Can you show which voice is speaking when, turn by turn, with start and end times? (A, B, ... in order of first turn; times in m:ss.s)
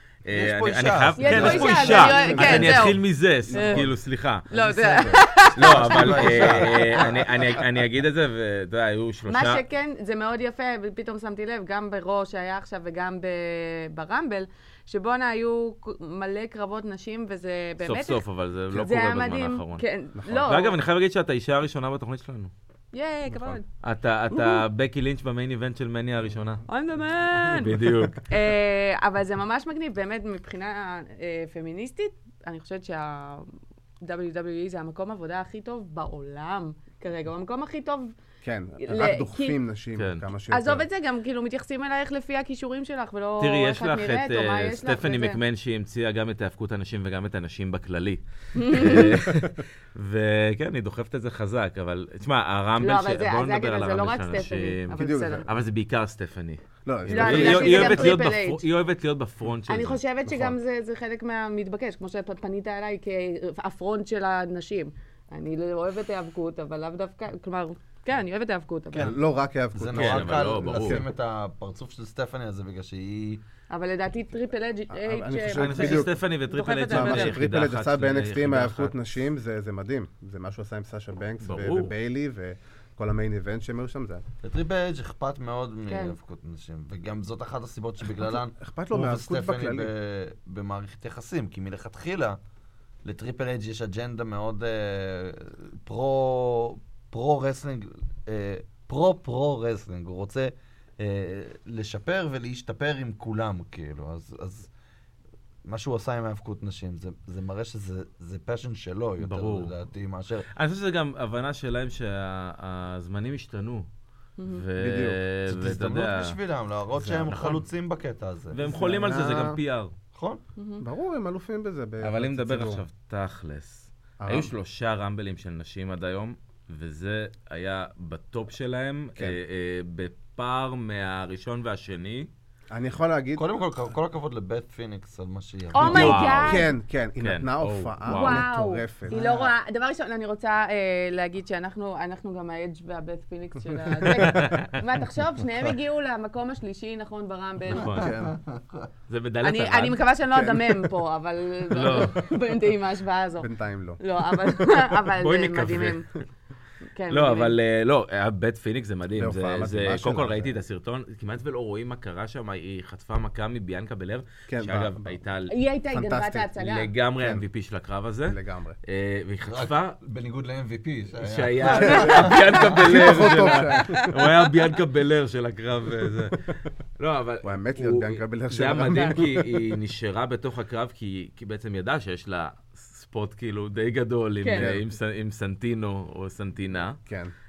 0:00.2-0:04.5 A
0:00.3-0:02.2 B
0:01.2-0:03.9 C
0:01.4-0:04.0 D
0:04.5-0:05.2 D
0:04.5-0:07.1 C
0:05.5-0:09.6 A
0:05.6-0:07.6 B
0:09.3-0:20.8 C
0:17.8-0:22.5 A
0:22.9-0:23.6 C
0:23.3-0:23.6 D
0:23.8-0:26.6 A
0:24.3-0:24.6 C
0:26.7-0:38.1 C
0:27.5-0:28.2 A
0:38.4-0:40.9 D
0:38.8-0:39.6 C
0:40.0-0:40.3 A
0:40.5-0:45.4 C
0:43.4-1:00.0 A
0:48.5-0:49.2 C
0:48.9-0:49.4 D
0:52.8-0:55.4 C
0:55.0-0:55.4 D
0:56.8-0:58.2 D
0:57.1-0:58.6 C
0:59.7-1:09.1 C
1:00.2-1:00.5 D
1:08.9-1:09.2 B
1:09.0-1:11.0 D
1:09.8-1:13.4 B
1:09.9-1:11.0 A
1:13.7-1:17.4 C
1:14.9-1:16.1 D
1:15.5-1:19.0 A
1:16.9-1:24.2 D
1:21.4-1:22.0 A
1:24.4-1:32.4 B
1:25.9-1:26.2 C
1:28.2-1:29.9 D
1:33.0-1:44.7 B
1:45.6-1:50.5 B
1:49.2-1:49.7 A
1:50.5-1:53.9 A
1:54.4-1:54.6 C
1:54.4-1:56.4 A
1:54.8-1:55.2 D
1:55.5-1:58.6 B
1:57.0-1:57.6 A
1:58.5-1:59.9 A
1:58.6-1:59.6 D
2:00.1-2:00.4 B
2:00.6-2:00.8 C
2:00.8-2:02.8 D
2:02.0-2:12.3 A
2:04.2-2:04.5 D
2:12.7-2:13.4 D
2:13.3-2:16.6 B
2:15.7-2:16.7 C
2:15.8-2:16.6 A
2:15.9-2:19.5 D
2:17.2-2:18.5 A
2:18.1-2:28.0 C
2:24.0-2:24.6 D
2:24.1-2:24.8 A
2:27.7-2:28.1 A
2:28.0-2:28.9 B
2:29.1-2:30.0 A
2:29.4-2:33.5 C
2:30.3-2:30.9 D
2:31.7-2:32.3 A
2:33.4-2:34.0 D
2:34.0-2:36.1 C
2:35.1-2:36.1 A
2:36.9-2:37.5 C
2:37.1-2:45.5 A
2:39.1-2:40.5 D
2:44.5-2:45.2 D
2:45.5-2:46.9 C
2:45.9-2:46.5 D
2:46.6-2:50.0 A
2:47.2-2:47.4 D
2:48.3-2:48.8 D
2:49.5-2:52.8 B
2:51.2-2:56.4 A
2:51.8-2:54.2 D
2:51.9-2:54.2 C
2:57.0-3:07.0 A
2:57.4-2:59.8 D
3:04.4-3:04.7 C
3:04.5-3:04.8 D
3:07.0-3:07.3 D